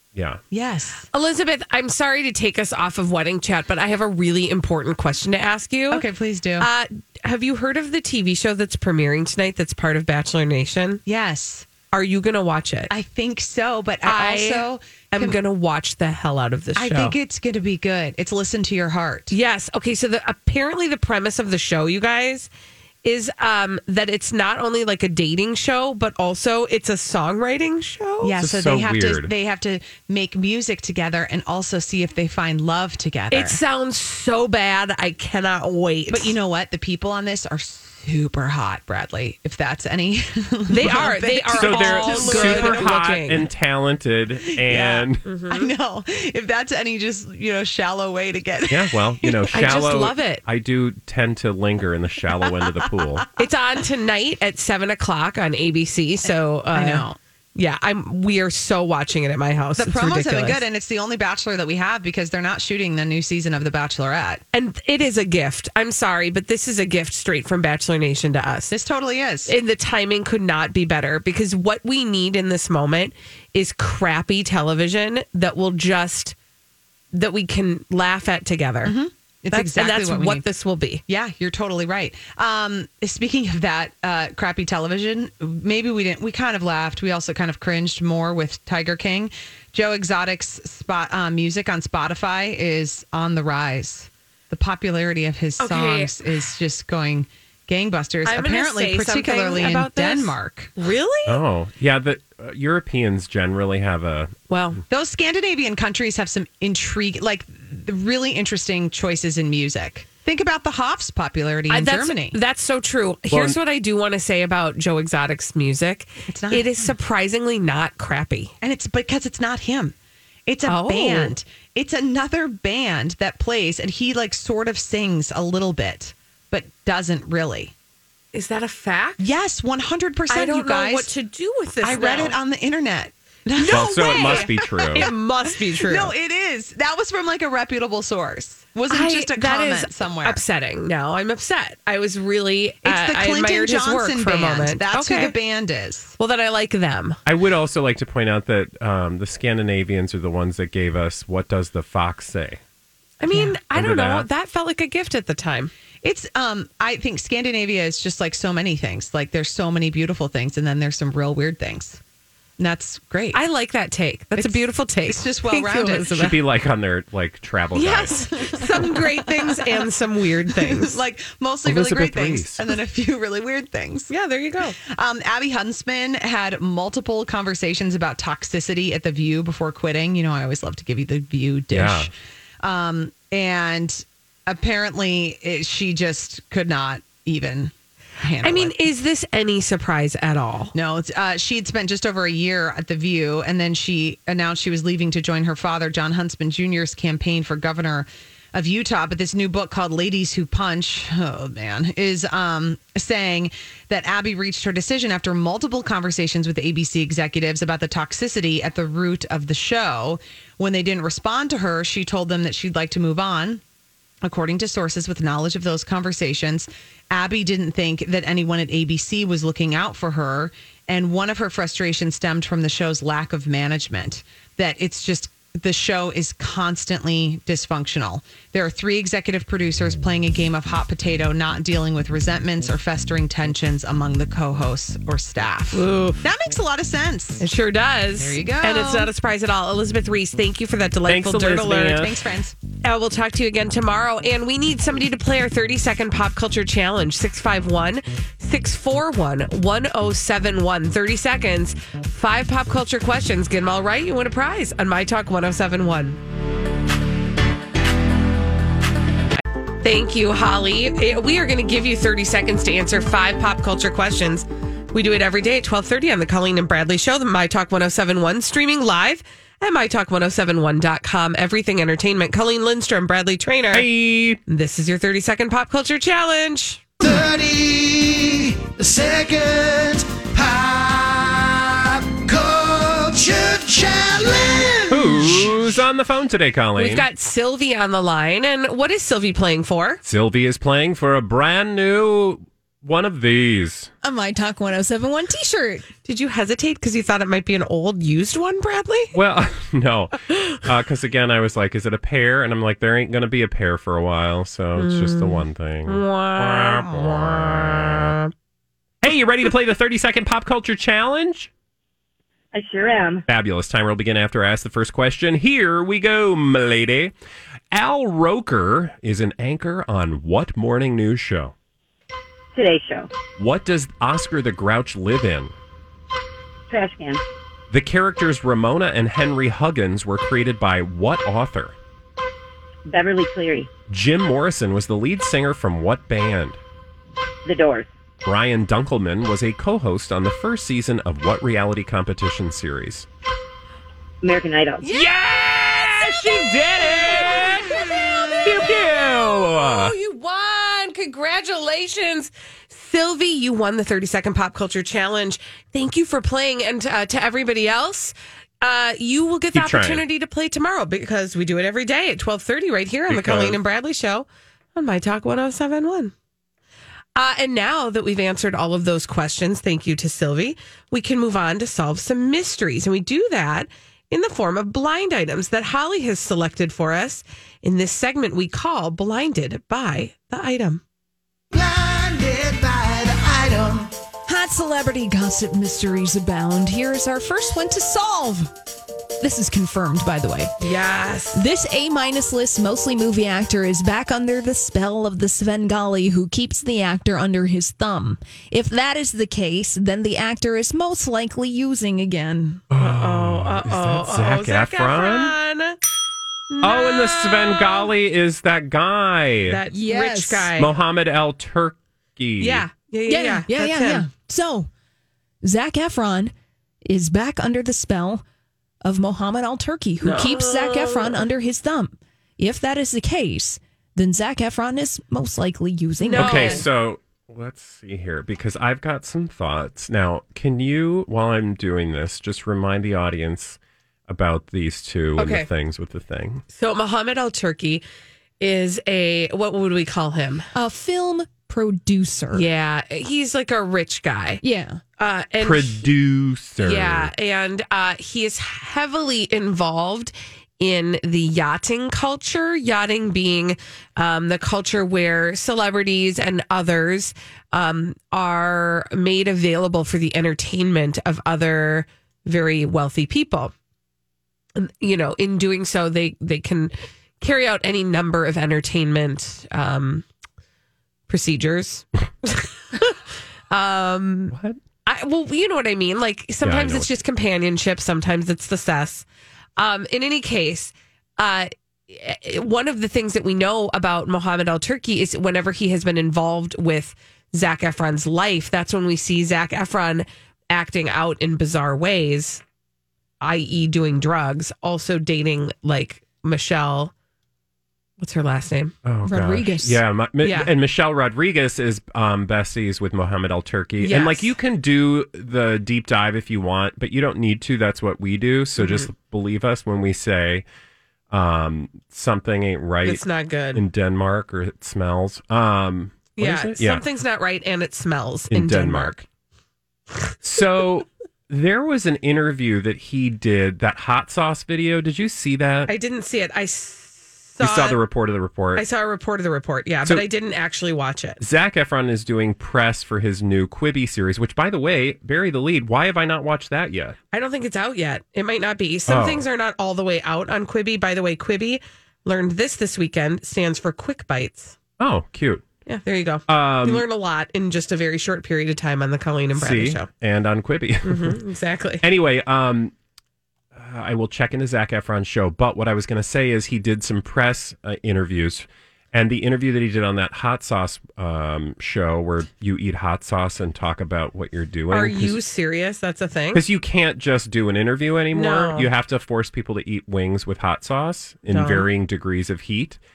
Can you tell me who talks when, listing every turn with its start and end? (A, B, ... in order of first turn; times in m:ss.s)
0:00.1-0:00.4 A
0:00.5-0:01.0 B
0:01.1-0:06.0 C
0:05.9-0:06.7 B
0:06.6-0:11.0 C
0:11.0-0:11.7 B
0:11.9-0:12.9 C
0:12.9-0:15.4 B
0:14.0-0:17.2 C
0:16.8-0:19.4 B
0:19.3-0:22.5 C
0:23.0-0:28.4 C
0:28.2-0:33.6 B
0:28.4-0:29.3 A
0:33.3-0:36.3 C
0:36.1-0:43.1 B
0:40.7-0:43.5 C
0:41.5-0:45.2 A
0:44.5-0:49.7 B
0:45.2-0:45.7 C
0:48.7-0:53.2 A
0:49.5-0:50.4 C
0:52.6-0:53.2 B
0:53.4-1:00.6 C
0:56.2-0:57.2 B
0:59.8-1:04.4 B
1:04.5-1:08.7 C
1:08.7-1:09.5 B
1:09.4-1:16.3 C
1:17.1-1:19.0 C
1:18.8-1:20.4 B
1:19.5-1:21.0 C
1:21.1-1:40.7 B
1:35.6-1:36.1 C
1:38.2-1:41.4 C
1:41.3-1:44.3 A
1:44.5-1:44.8 C
1:44.9-1:52.4 B
1:51.7-1:58.5 C
1:53.3-1:53.6 A
1:56.3-1:56.9 B
1:58.6-1:59.9 B
2:00.5-2:07.7 B
2:00.6-2:01.4 C
2:08.3-2:09.2 C
2:09.2-2:11.1 B
2:10.3-2:12.4 C
2:11.8-2:15.1 B
2:13.6-2:16.1 C
2:13.7-2:15.0 A
2:15.8-2:20.4 B
2:18.9-2:25.3 C
2:22.8-2:26.1 B
2:26.2-2:27.2 C
2:27.2-2:32.6 A
2:33.2-2:35.7 C
2:33.3-2:33.5 B
2:33.7-2:34.3 A
2:36.0-2:42.0 B
2:42.6-2:43.4 B
2:43.3-2:46.4 C
2:44.3-2:46.3 B
2:46.1-2:48.2 A
2:47.7-2:51.0 C
2:48.4-2:49.8 B
2:50.5-2:54.1 B
2:51.6-2:52.6 A
2:54.1-2:54.8 C
2:54.8-3:08.8 B
3:01.7-3:02.1 A
3:08.4-3:10.7 C
3:10.7-3:33.6 B
3:34.2-3:57.4 B
3:55.7-3:56.2 C
3:57.4-4:02.1 C
3:58.2-3:59.1 B
4:01.0-4:02.1 A
4:01.8-4:02.6 B
4:02.8-4:16.2 C
4:19.8-4:33.9 C
4:33.7-4:34.4 A
4:34.5-4:36.8 C
4:37.0-4:45.5 D
4:44.9-4:47.0 A
4:46.8-4:50.0 C
4:50.0-4:53.9 A
4:54.0-4:55.9 E
4:56.0-4:59.1 C
4:59.1-5:08.2 A
5:04.8-5:08.3 C
5:09.0-5:11.5 A
5:12.5-5:13.2 F
5:13.3-5:17.1 A
5:17.7-5:21.5 A
5:22.5-5:23.1 F
5:23.4-5:25.5 A
5:26.7-5:27.2 F
5:27.7-5:31.7 A
5:32.8-5:33.7 F
5:33.9-5:36.6 A
5:37.4-5:37.9 F
5:38.2-5:43.1 A
5:44.2-5:44.8 F
5:44.8-6:06.1 C
5:44.9-5:49.9 A
5:59.5-6:00.0 A
6:03.1-6:03.6 A
6:07.2-6:20.8 C
6:21.5-6:23.9 D
6:24.3-6:28.5 E
6:29.2-6:30.5 E
6:30.6-6:31.4 C
6:31.3-6:42.6 E
6:42.7-6:45.3 A
6:42.8-6:45.8 C
6:46.5-6:47.9 C
6:46.6-6:49.6 A
6:49.5-6:50.7 C
6:49.7-6:50.5 E
6:50.5-6:52.6 A
6:52.4-6:54.1 C
6:53.1-6:54.7 E
6:55.4-6:56.3 E
6:56.8-6:58.2 E
6:58.8-7:06.6 E
7:00.0-7:01.2 C
7:06.0-7:06.7 C
7:06.2-7:16.4 A
7:15.2-7:15.5 C
7:16.5-7:17.8 C
7:18.4-7:20.5 C
7:20.5-7:22.5 E
7:22.3-7:24.4 C
7:24.4-7:24.8 E
7:25.0-7:25.8 C
7:25.4-7:27.1 A
7:26.6-7:43.5 C
7:44.5-7:50.0 C
7:51.1-7:53.0 C
7:53.5-7:54.3 C
7:54.3-7:54.6 A
7:54.8-7:59.0 C
7:56.4-7:56.9 A
7:59.6-8:12.4 C
8:13.2-8:16.9 C
8:18.0-8:18.7 C
8:18.8-8:30.4 A
8:19.0-8:19.8 E
8:20.2-8:20.5 C
8:23.8-8:24.3 C
8:28.6-8:28.9 C
8:31.1-8:33.0 A
8:32.8-8:33.6 C
8:33.5-8:36.8 A
8:36.2-8:39.0 C
8:38.3-8:39.0 A
8:40.2-8:45.7 A
8:45.7-8:47.8 C
8:47.4-8:48.6 A
8:48.5-8:51.2 C
8:51.2-8:57.0 A
8:57.1-9:04.6 C
8:58.9-8:59.2 A
9:04.8-9:05.4 A
9:05.6-9:09.9 C
9:06.3-9:06.8 A
9:09.3-9:11.2 A
9:10.8-9:11.8 C
9:11.8-9:12.7 A
9:13.5-9:25.2 A
9:24.7-9:26.4 C
9:26.3-9:32.8 A
9:28.1-9:28.7 C
9:31.3-9:31.7 C